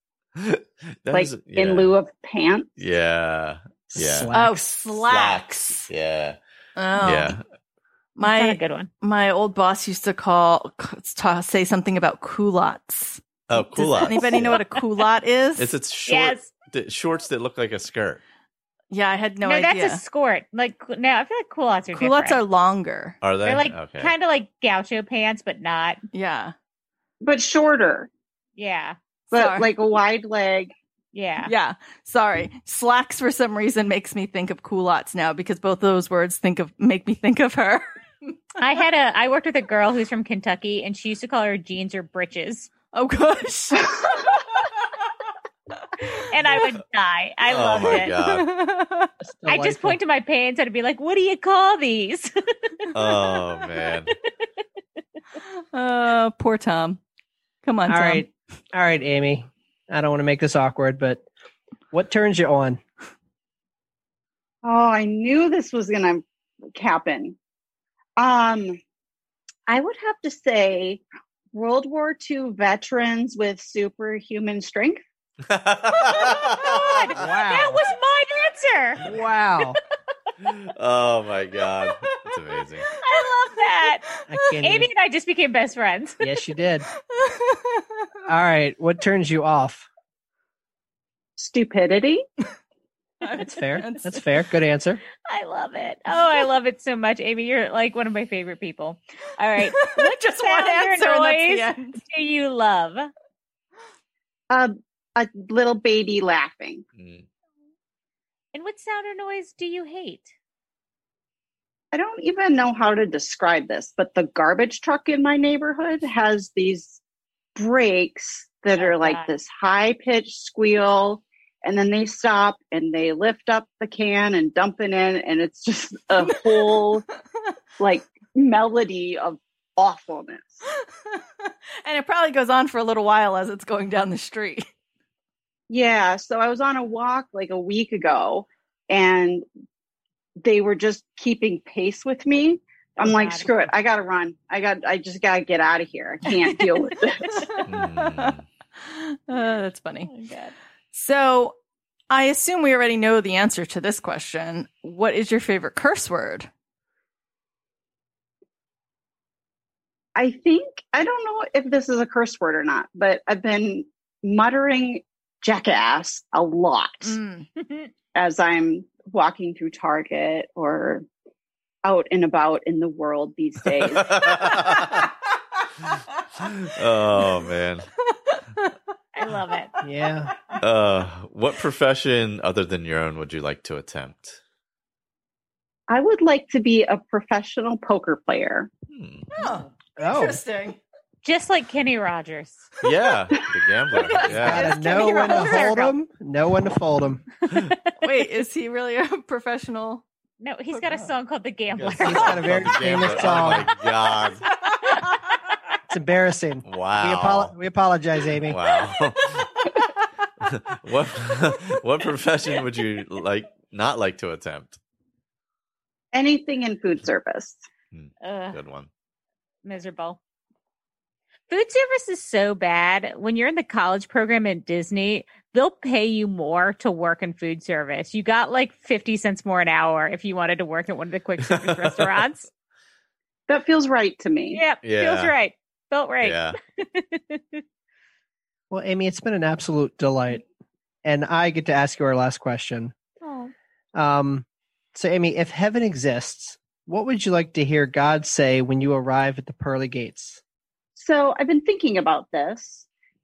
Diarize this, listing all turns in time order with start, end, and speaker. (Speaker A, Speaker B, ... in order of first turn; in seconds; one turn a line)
Speaker A: 0.4-1.9
Speaker B: 1.1-2.8
Speaker A: 2.8-4.3
Speaker C: 3.9-4.7
Speaker D: 4.3-5.9
Speaker A: 4.9-6.4
Speaker D: 6.8-7.4
Speaker A: 7.0-7.4
Speaker D: 8.2-15.8
Speaker E: 8.2-8.9
Speaker A: 13.5-14.6
Speaker A: 15.6-18.2
Speaker E: 16.1-16.5
Speaker D: 18.9-20.0
Speaker E: 19.4-22.4
Speaker D: 21.9-23.2
Speaker A: 23.2-24.1
Speaker E: 23.4-26.0
Speaker D: 26.1-26.5
Speaker B: 27.2-28.1
Speaker E: 28.6-29.0
Speaker D: 29.3-29.7
Speaker B: 29.3-30.7
Speaker E: 31.1-31.5
Speaker D: 31.5-38.2
Speaker E: 38.6-42.7
Speaker D: 42.9-44.9
Speaker E: 46.2-48.1
Speaker A: 47.5-48.4
Speaker D: 48.0-49.1
Speaker C: 49.2-50.0
Speaker E: 49.5-52.3
Speaker A: 52.9-54.1
Speaker D: 55.7-57.0
Speaker D: 57.6-58.2
Speaker C: 57.9-61.2
Speaker C: 61.9-62.8
Speaker B: 64.6-66.2
Speaker B: 66.8-67.4
Speaker B: 68.2-68.8
Speaker B: 69.7-75.0
Speaker A: 75.5-77.1
Speaker E: 76.3-79.0
Speaker C: 77.1-77.8
Speaker C: 79.0-79.8
Speaker A: 80.4-82.9
Speaker E: 83.0-84.0
Speaker C: 84.3-84.9
Speaker E: 84.6-86.2
Speaker C: 86.2-86.9
Speaker D: 87.1-88.1
Speaker C: 88.3-89.9
Speaker B: 91.4-92.2
Speaker D: 93.2-94.2
Speaker C: 93.4-95.0
Speaker E: 95.3-103.1
Speaker D: 99.6-102.0
Speaker B: 104.5-106.8
Speaker A: 107.0-107.2
Speaker E: 108.5-110.3
Speaker B: 111.9-117.0
Speaker B: 117.6-127.0
Speaker E: 118.8-119.3
Speaker D: 126.2-127.5
Speaker B: 127.8-130.6
Speaker D: 130.6-134.7
Speaker B: 135.7-139.4
Speaker B: 140.4-147.4
Speaker E: 143.0-143.5
Speaker D: 147.4-150.1
Speaker A: 147.7-148.4
Speaker E: 149.4-150.5
Speaker D: 150.9-151.6
Speaker D: 152.1-156.5
Speaker B: 160.1-167.2
Speaker D: 167.0-167.5
Speaker E: 167.6-167.9
Speaker B: 168.1-171.0
Speaker B: 171.8-174.1
Speaker A: 173.9-175.0
Speaker A: 176.5-177.9
Speaker D: 178.1-178.7
Speaker E: 179.1-179.7
Speaker C: 179.8-180.3
Speaker A: 180.6-184.4
Speaker B: 185.9-188.7
Speaker A: 188.9-189.3
Speaker D: 189.4-190.8
Speaker C: 190.0-190.4
Speaker E: 191.2-192.7
Speaker A: 192.8-194.7
Speaker D: 194.1-195.7
Speaker C: 194.4-197.2
Speaker E: 194.6-195.9
Speaker E: 197.5-197.9
Speaker D: 198.0-200.0
Speaker E: 200.4-202.5
Speaker D: 200.7-201.1
Speaker A: 201.7-204.4
Speaker C: 202.0-203.7
Speaker D: 204.4-205.0
Speaker C: 205.9-208.6
Speaker A: 206.7-207.5
Speaker A: 208.5-209.5
Speaker A: 210.4-214.8
Speaker B: 216.1-217.6
Speaker A: 217.9-218.9
Speaker E: 218.2-218.6
Speaker E: 219.6-220.2
Speaker E: 221.5-232.5
Speaker A: 231.5-232.2
Speaker B: 233.5-234.6
Speaker E: 234.5-237.6
Speaker A: 234.8-235.3
Speaker A: 236.2-236.6
Speaker C: 238.7-240.4
Speaker C: 241.0-242.9
Speaker E: 243.2-243.5
Speaker C: 243.9-250.4
Speaker B: 250.9-252.9